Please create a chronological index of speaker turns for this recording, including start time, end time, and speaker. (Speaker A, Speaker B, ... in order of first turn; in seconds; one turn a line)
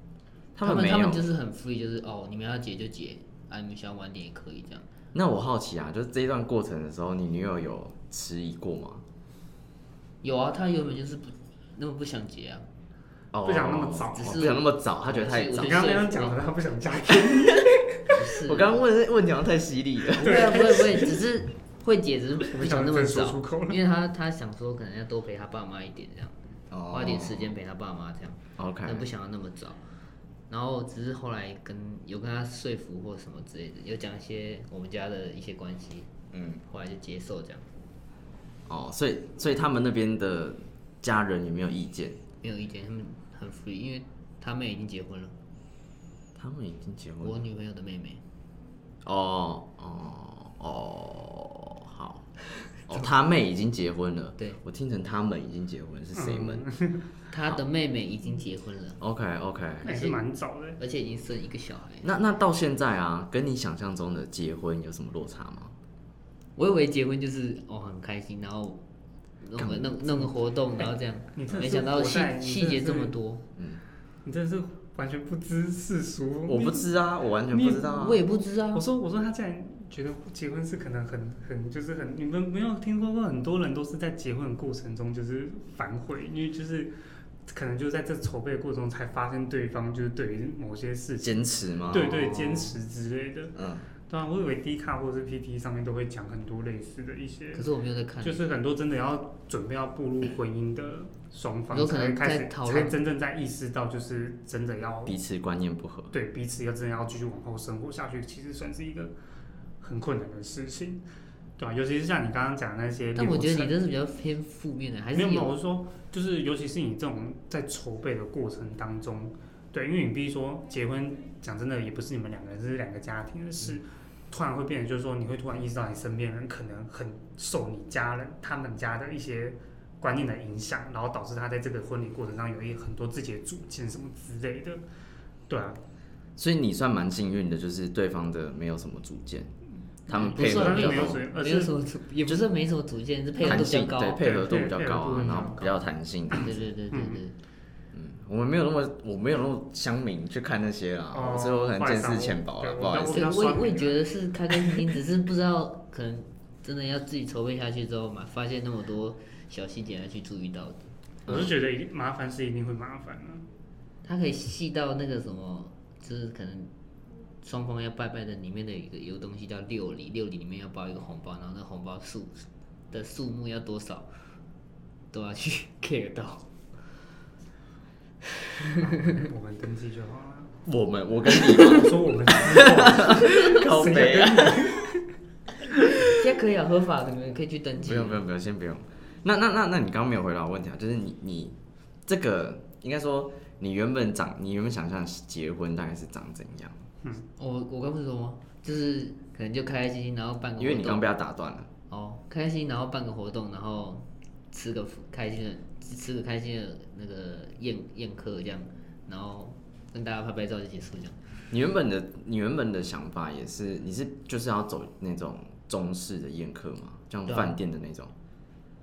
Speaker A: 0.6-1.2
Speaker B: 0.6-4.9
Speaker A: 5.1-9.0
Speaker B: 10.2-12.7
Speaker A: 13.3-15.9
Speaker C: 13.4-14.4
Speaker B: 14.1-16.4
Speaker C: 15.6-17.8
Speaker B: 18.1-18.8
Speaker A: 18.4-21.1
Speaker B: 20.2-29.8
Speaker C: 20.2-21.0
Speaker C: 22.5-23.8
Speaker A: 26.7-27.6
Speaker A: 28.6-29.1
Speaker B: 30.5-36.1
Speaker A: 36.3-36.6
Speaker B: 36.7-37.7
Speaker A: 38.7-42.2
Speaker B: 42.4-45.4
Speaker A: 46.4-47.4
Speaker B: 47.2-48.2
Speaker A: 49.0-52.3
Speaker A: 52.9-56.6
Speaker C: 56.1-57.1
Speaker B: 57.3-59.0
Speaker A: 59.0-59.9
Speaker C: 59.8-60.8
Speaker B: 59.8-60.2
Speaker B: 60.8-62.1
Speaker A: 62.0-65.7
Speaker B: 66.6-68.8
Speaker B: 69.4-73.4
Speaker A: 69.6-70.3
Speaker C: 71.3-73.2
Speaker C: 74.2-76.9
Speaker A: 76.5-78.2
Speaker C: 77.5-78.0
Speaker B: 77.8-78.8
Speaker C: 78.7-86.9
Speaker C: 87.5-93.5
Speaker A: 91.2-92.8
Speaker A: 93.6-93.9
Speaker C: 94.1-97.7
Speaker B: 97.5-98.4
Speaker C: 98.2-105.2
Speaker B: 101.7-103.0
Speaker A: 105.1-106.1
Speaker C: 106.1-109.1
Speaker C: 109.8-111.0
Speaker C: 111.6-113.7
Speaker B: 113.2-115.5
Speaker C: 115.1-134.8
Speaker C: 135.5-135.8
Speaker A: 136.4-139.5
Speaker A: 140.1-141.2
Speaker B: 140.1-144.2
Speaker C: 140.2-141.7
Speaker A: 143.4-146.5
Speaker C: 144.2-145.7
Speaker B: 146.3-147.4
Speaker C: 146.9-147.2
Speaker A: 147.9-153.3
Speaker C: 151.1-154.1
Speaker B: 153.1-161.5
Speaker C: 161.3-163.4
Speaker B: 164.0-166.7
Speaker B: 167.4-174.1
Speaker B: 175.1-176.5
Speaker C: 178.8-180.5
Speaker A: 180.7-184.9
Speaker C: 181.4-185.0
Speaker B: 186.0-188.2
Speaker A: 187.8-196.8
Speaker B: 197.4-201.0
Speaker A: 200.6-201.7
Speaker B: 201.9-211.2
Speaker A: 211.5-218.1
Speaker B: 217.3-217.6